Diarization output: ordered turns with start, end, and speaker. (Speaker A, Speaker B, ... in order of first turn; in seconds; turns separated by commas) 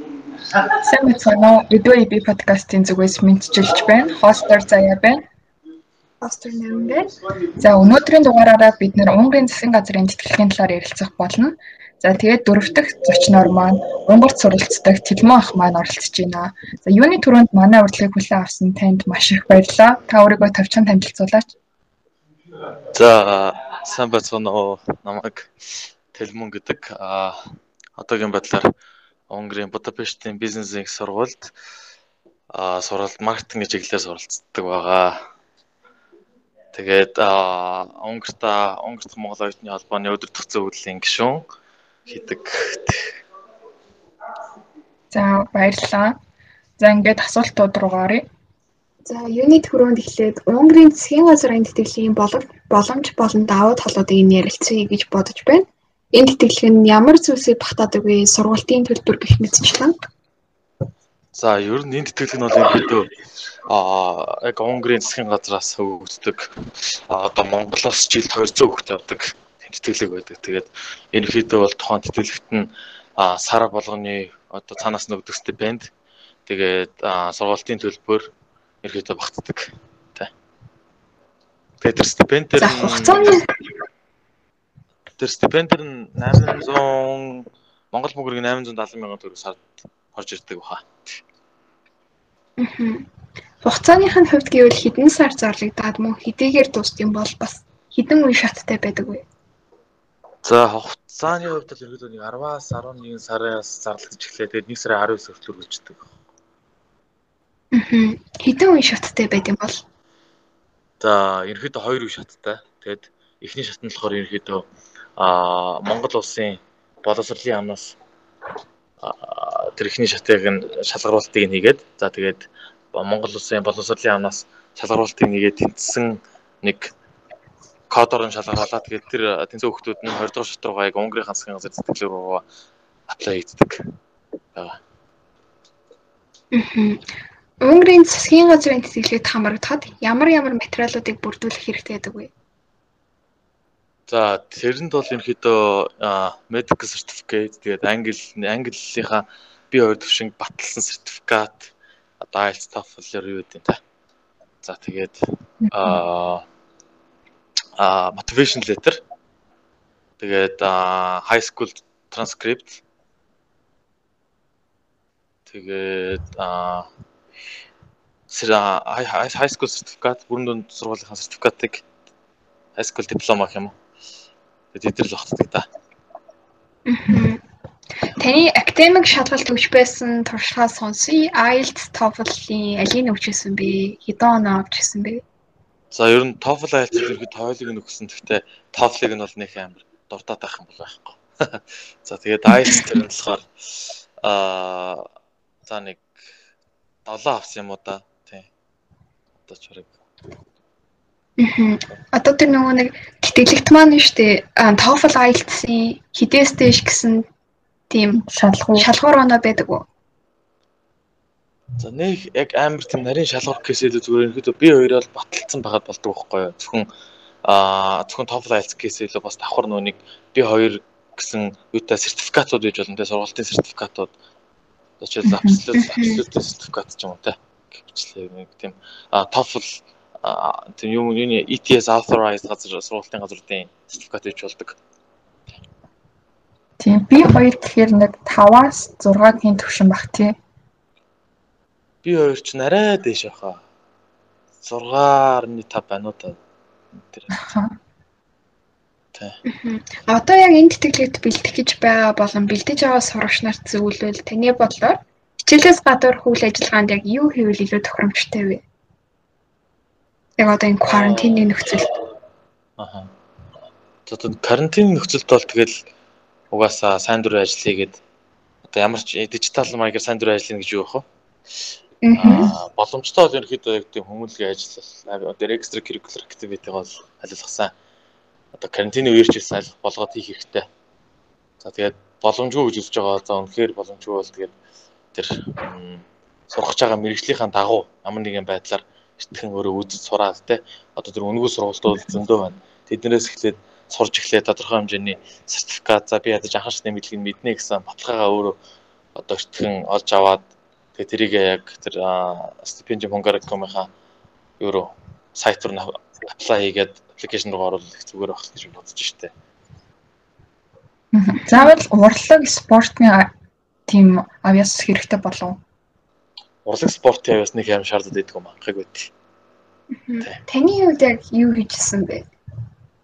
Speaker A: 0.8-5.2, Speaker B: 6.2-7.2, Speaker A: 7.5-21.5, Speaker C: 22.9-28.7, Speaker C: 29.3-31.5, Speaker C: 32.5-35.3, Speaker C: 36.7-41.5, Speaker C: 42.0-43.2, Speaker A: 45.1-46.2, Speaker A: 46.8-48.3, Speaker B: 49.0-60.1, Speaker C: 61.3-63.1, Speaker C: 63.7-75.9, Speaker C: 76.5-78.3, Speaker C: 78.8-80.3, Speaker C: 81.8-83.4, Speaker B: 82.6-83.5, Speaker C: 85.2-91.2, Speaker B: 92.6-93.1, Speaker B: 93.6-99.2, Speaker C: 100.4-106.1, Speaker B: 107.7-109.8, Speaker C: 111.0-114.7, Speaker C: 115.2-118.0, Speaker C: 119.0-126.9, Speaker C: 127.9-132.4, Speaker C: 133.1-133.8, Speaker C: 134.5-134.8, Speaker B: 136.5-137.1, Speaker B: 137.6-142.3, Speaker C: 144.1-153.8, Speaker C: 154.6-156.4, Speaker C: 157.8-159.0, Speaker C: 160.2-162.8, Speaker C: 165.5-166.9, Speaker C: 168.3-171.8, Speaker C: 172.8-173.7, Speaker C: 174.7-175.6, Speaker B: 176.8-177.4, Speaker B: 178.1-185.2, Speaker C: 185.9-195.0, Speaker C: 195.6-196.0, Speaker C: 197.0-198.5, Speaker C: 199.4-199.9, Speaker B: 201.4-207.3, Speaker B: 207.9-208.2, Speaker A: 208.2-208.9, Speaker B: 208.7-209.8, Speaker C: 211.8-216.9, Speaker C: 217.4-224.1, Speaker C: 225.0-234.8, Speaker A: 225.2-225.6, Speaker B: 225.7-226.2, Speaker A: 236.8-240.3, Speaker C: 242.0-243.6, Speaker C: 244.6-246.4, Speaker C: 246.9-247.5, Speaker A: 247.3-247.8, Speaker B: 249.4-258.6, Speaker B: 260.4-261.9, Speaker C: 260.9-261.6, Speaker C: 262.8-263.1, Speaker C: 264.1-265.8, Speaker C: 266.5-268.0, Speaker C: 268.7-271.1, Speaker B: 272.0-272.5, Speaker C: 272.2-277.7, Speaker C: 278.5-280.7, Speaker C: 281.6-284.5, Speaker C: 285.1-298.6, Speaker C: 299.1-303.9, Speaker C: 304.6-309.3, Speaker A: 311.1-313.3, Speaker A: 313.9-315.6, Speaker C: 316.6-319.1, Speaker B: 319.9-322.3